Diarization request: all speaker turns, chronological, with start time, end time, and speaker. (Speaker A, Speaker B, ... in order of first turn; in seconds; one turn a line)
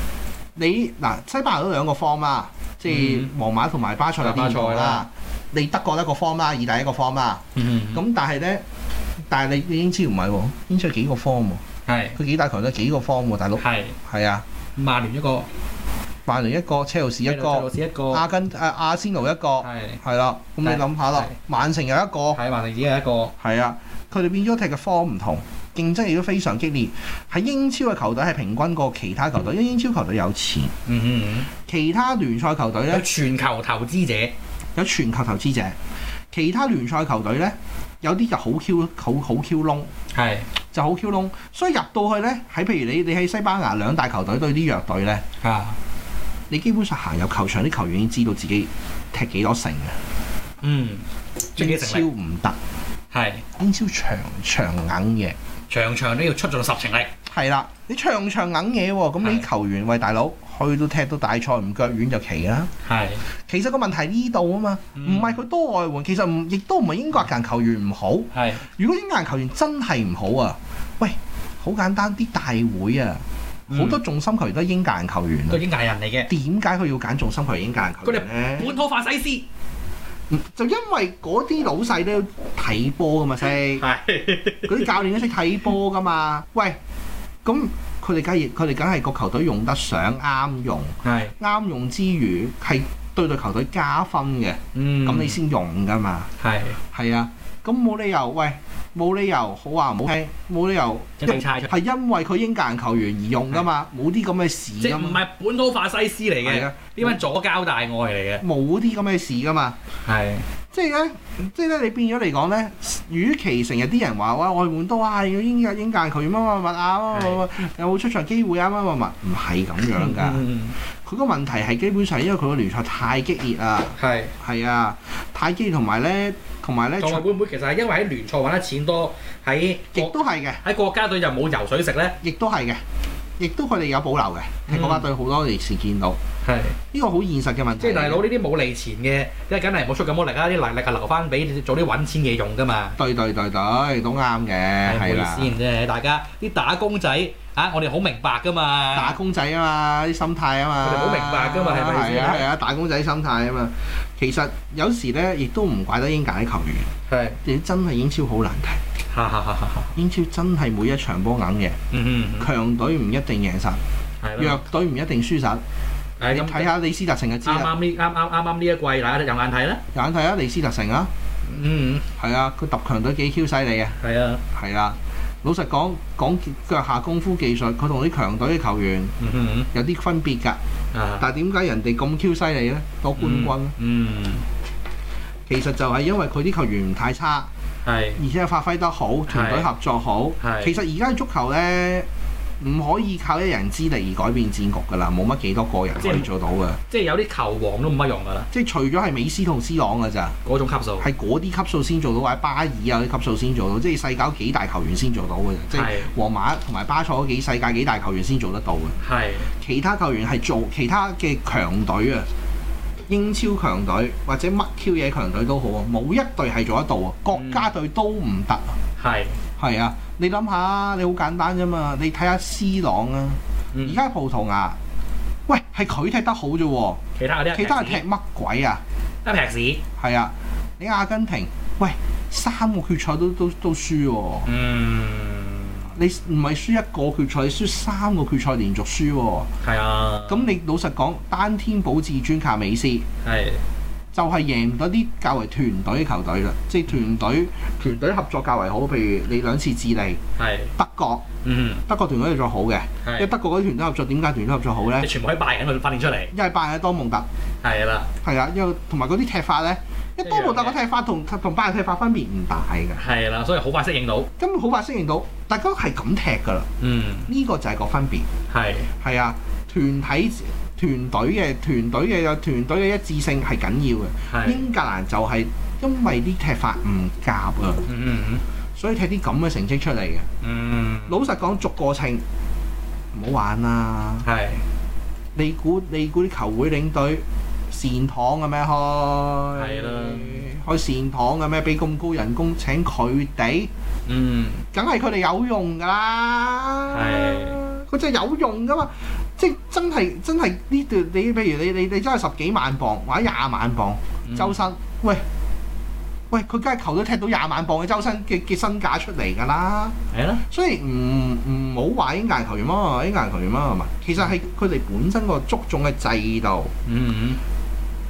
Speaker A: 0.6-8.6
Speaker B: 2.9-3.3
Speaker B: 4.2-5.1
Speaker B: 7.5-8.0
Speaker A: 9.3-11.6
Speaker B: 11.9-12.2
Speaker A: 12.2-14.4
Speaker B: 13.6-14.0
Speaker B: 14.8-15.5
Speaker A: 16.3-22.4
Speaker B: 17.2-18.2
Speaker B: 19.6-20.0
Speaker B: 20.6-21.4
Speaker B: 22.3-23.3
Speaker A: 23.4-30.7
Speaker B: 30.9-31.5
Speaker A: 31.7-33.1
Speaker B: 32.9-34.3
Speaker A: 34.8-35.8
Speaker A: 36.3-39.9
Speaker B: 40.1-40.5
Speaker A: 40.7-45.2
Speaker B: 45.4-45.8
Speaker A: 46.5-50.0
Speaker B: 50.6-52.1
Speaker A: 51.6-52.6
Speaker B: 53.1-53.4
Speaker A: 53.6-55.4
Speaker B: 55.7-57.1
Speaker A: 57.3-62.7
Speaker B: 62.8-63.2
Speaker A: 63.4-75.6
Speaker B: 65.0-65.4
Speaker B: 68.3-68.7
Speaker B: 73.7-74.0
Speaker B: 75.5-76.3
Speaker A: 76.3-78.8
Speaker B: 78.0-79.5
Speaker A: 80.3-83.8
Speaker B: 83.7-85.0
Speaker A: 84.7-86.8
Speaker A: 87.4-96.3
Speaker B: 91.0-91.3
Speaker B: 94.7-95.4
Speaker B: 96.4-96.8
Speaker A: 96.9-105.2
Speaker B: 101.2-101.7
Speaker B: 104.8-108.4
Speaker A: 106.4-107.2
Speaker A: 108.4-109.8
Speaker B: 110.1-110.5
Speaker A: 110.7-120.5
Speaker B: 117.1-117.4
Speaker B: 119.9-120.8
Speaker A: 121.0-127.3
Speaker B: 124.0-124.3
Speaker B: 127.0-132.2
Speaker A: 129.9-130.6
Speaker A: 132.2-132.8
Speaker A: 133.4-136.2
Speaker B: 134.7-135.1
Speaker B: 136.4-136.8
Speaker A: 136.9-138.2
Speaker B: 137.8-143.0
Speaker A: 143.0-145.6
Speaker B: 144.8-149.2
Speaker A: 148.9-156.9
Speaker B: 150.8-152.5
Speaker B: 157.1-157.4
Speaker A: 157.4-158.8
Speaker B: 159.1-160.0
Speaker A: 159.9-161.8
Speaker B: 161.9-162.5
Speaker A: 162.4-163.8
Speaker B: 164.2-164.6
Speaker A: 164.4-165.6
Speaker B: 166.2-166.7
Speaker A: 166.3-167.7
Speaker B: 167.4-169.8
Speaker A: 169.9-171.1
Speaker B: 171.5-172.1
Speaker A: 172.2-174.0
Speaker B: 174.0-174.4
Speaker A: 174.5-179.1
Speaker B: 179.2-179.7
Speaker A: 179.7-180.6
Speaker B: 180.9-181.3
Speaker A: 181.2-183.7
Speaker B: 183.2-184.5
Speaker A: 185.5-187.5
Speaker B: 187.8-188.2
Speaker A: 188.2-192.1
Speaker B: 189.3-189.7
Speaker B: 190.4-190.8
Speaker A: 192.6-196.8
Speaker B: 196.0-196.3
Speaker B: 196.9-198.5
Speaker A: 198.5-200.4
Speaker B: 200.4-201.1
Speaker A: 201.0-209.0
Speaker B: 205.7-206.1
Speaker B: 209.0-209.5
Speaker A: 209.6-212.3
Speaker A: 213.1-218.7
Speaker B: 217.3-217.7
Speaker B: 219.0-219.4
Speaker A: 219.6-224.8
Speaker B: 223.7-224.0
Speaker A: 225.5-227.0
Speaker B: 227.2-228.0
Speaker A: 227.5-228.8
Speaker B: 229.2-229.8
Speaker A: 230.0-234.5
Speaker B: 234.4-236.0
Speaker A: 235.9-239.5
Speaker B: 239.6-240.6
Speaker A: 240.3-243.1
Speaker B: 243.2-243.7
Speaker A: 244.1-250.2
Speaker B: 250.4-250.7
Speaker A: 250.8-251.2
Speaker B: 251.4-251.8
Speaker A: 251.9-255.1
Speaker B: 253.0-253.3
Speaker B: 255.0-256.3
Speaker A: 256.3-257.3
Speaker B: 257.6-258.1
Speaker A: 258.2-263.0
Speaker B: 260.2-260.8
Speaker B: 263.0-264.3
Speaker A: 264.4-266.7
Speaker B: 266.8-267.3
Speaker A: 267.3-268.3
Speaker B: 268.5-268.9
Speaker A: 269.0-277.9
Speaker B: 274.3-274.6
Speaker B: 277.9-278.4
Speaker A: 278.8-280.3
Speaker B: 280.4-281.2
Speaker A: 281.1-282.2
Speaker A: 283.1-284.3
Speaker B: 284.2-284.6
Speaker A: 285.4-293.7
Speaker B: 289.6-290.5
Speaker B: 294.1-294.6
Speaker A: 294.7-305.2
Speaker B: 296.9-297.6
Speaker B: 304.3-304.6
Speaker A: 306.3-310.0
Speaker B: 310.1-310.4
Speaker A: 310.5-316.7
Speaker B: 316.9-317.4